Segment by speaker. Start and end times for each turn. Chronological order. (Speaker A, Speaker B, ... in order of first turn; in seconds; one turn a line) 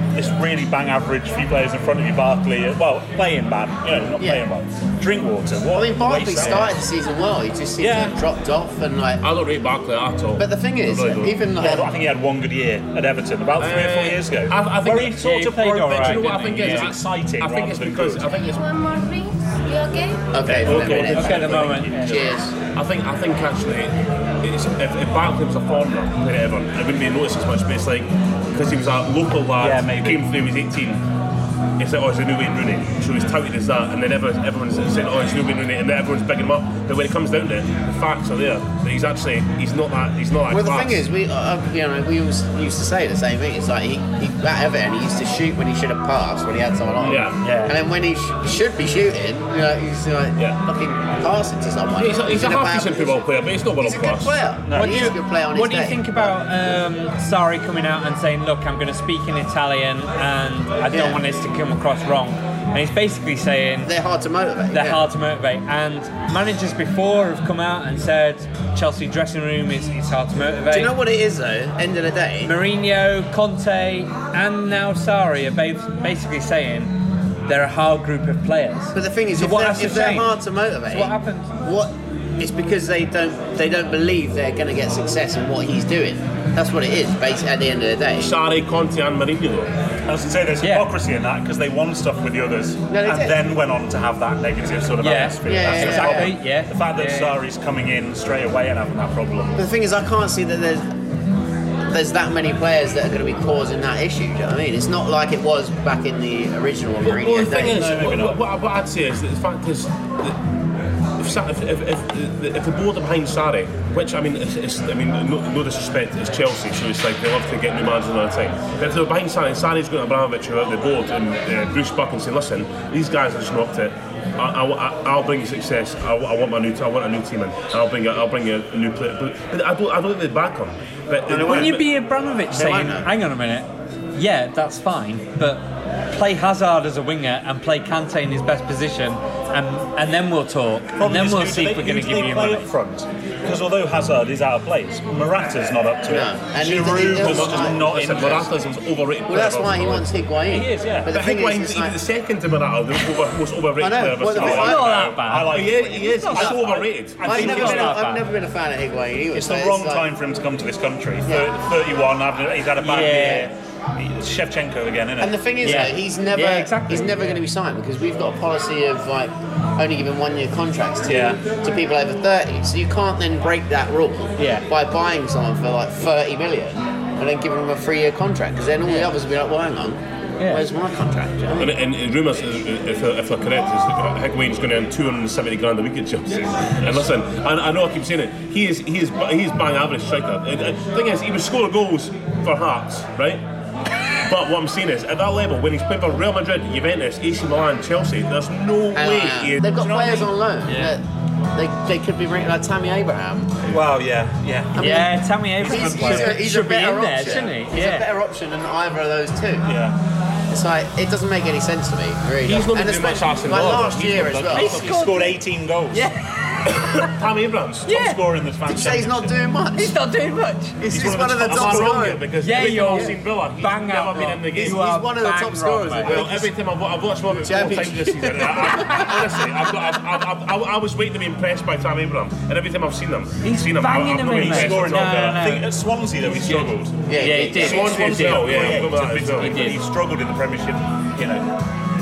Speaker A: 0.1-6.8
Speaker B: 5.7-9.2
Speaker A: 7.8-8.1
Speaker C: 9.2-11.4
Speaker B: 10.4-11.9
Speaker A: 11.6-18.3
Speaker C: 13.6-15.3
Speaker D: 15.1-16.9
Speaker C: 15.8-18.6
Speaker E: 18.4-20.4
Speaker B: 20.3-22.5
Speaker A: 20.4-22.2
Speaker C: 20.5-21.3
Speaker D: 20.7-22.4
Speaker C: 22.8-31.0
Speaker A: 29.6-30.3
Speaker C: 31.8-41.0
Speaker B: 40.5-56.6
Speaker C: 47.0-47.4
Speaker A: 47.0-47.5
Speaker D: 47.4-47.7
Speaker C: 52.0-54.4
Speaker A: 54.7-55.1
Speaker D: 54.7-63.9
Speaker B: 60.9-61.2
Speaker B: 63.8-65.0
Speaker D: 64.7-71.0
Speaker B: 70.7-72.5
Speaker D: 72.4-76.9
Speaker D: 77.5-81.5
Speaker B: 78.9-88.3
Speaker C: 88.2-89.7
Speaker A: 90.1-99.7
Speaker D: 90.6-90.9
Speaker B: 92.9-93.4
Speaker D: 95.0-97.3
Speaker B: 95.4-96.4
Speaker B: 99.6-100.9
Speaker B: 101.9-107.9
Speaker C: 107.0-110.4
Speaker A: 107.5-108.4
Speaker C: 111.2-131.9
Speaker B: 131.3-131.7
Speaker D: 131.3-142.7
Speaker B: 132.5-133.1
Speaker A: 141.0-148.7
Speaker B: 146.1-147.9
Speaker C: 146.9-150.1
Speaker B: 149.3-152.0
Speaker A: 150.5-151.1
Speaker C: 151.1-154.7
Speaker B: 153.8-155.1
Speaker A: 154.3-158.1
Speaker D: 154.4-158.2
Speaker C: 155.5-157.2
Speaker B: 156.2-156.7
Speaker B: 157.2-160.1
Speaker A: 159.3-165.4
Speaker B: 161.3-161.5
Speaker D: 162.8-163.5
Speaker B: 165.2-181.8
Speaker D: 165.6-167.4
Speaker A: 171.1-171.4
Speaker D: 174.4-174.7
Speaker D: 178.8-179.1
Speaker D: 180.4-180.6
Speaker C: 181.5-193.4
Speaker C: 194.2-200.2
Speaker B: 198.9-201.0
Speaker A: 199.8-200.3
Speaker D: 200.7-200.9
Speaker B: 201.5-203.6
Speaker A: 203.7-206.4
Speaker B: 204.8-205.1
Speaker D: 204.8-208.1
Speaker B: 205.6-209.7
Speaker A: 209.7-210.0
Speaker B: 210.5-214.8
Speaker C: 212.4-215.0
Speaker A: 214.5-216.1
Speaker D: 214.5-215.4
Speaker D: 215.9-217.1
Speaker C: 216.7-217.9
Speaker D: 217.9-218.2
Speaker A: 217.9-219.3
Speaker B: 218.7-219.9
Speaker D: 219.8-220.8
Speaker B: 220.8-223.1
Speaker C: 220.9-224.8
Speaker A: 221.4-222.0
Speaker D: 222.4-226.2
Speaker B: 224.5-226.5
Speaker C: 226.0-235.4
Speaker B: 227.3-229.4
Speaker D: 233.4-235.7
Speaker A: 234.2-237.0
Speaker D: 236.4-238.7
Speaker B: 237.1-238.1
Speaker C: 237.6-239.7
Speaker A: 237.6-241.5
Speaker D: 239.4-239.8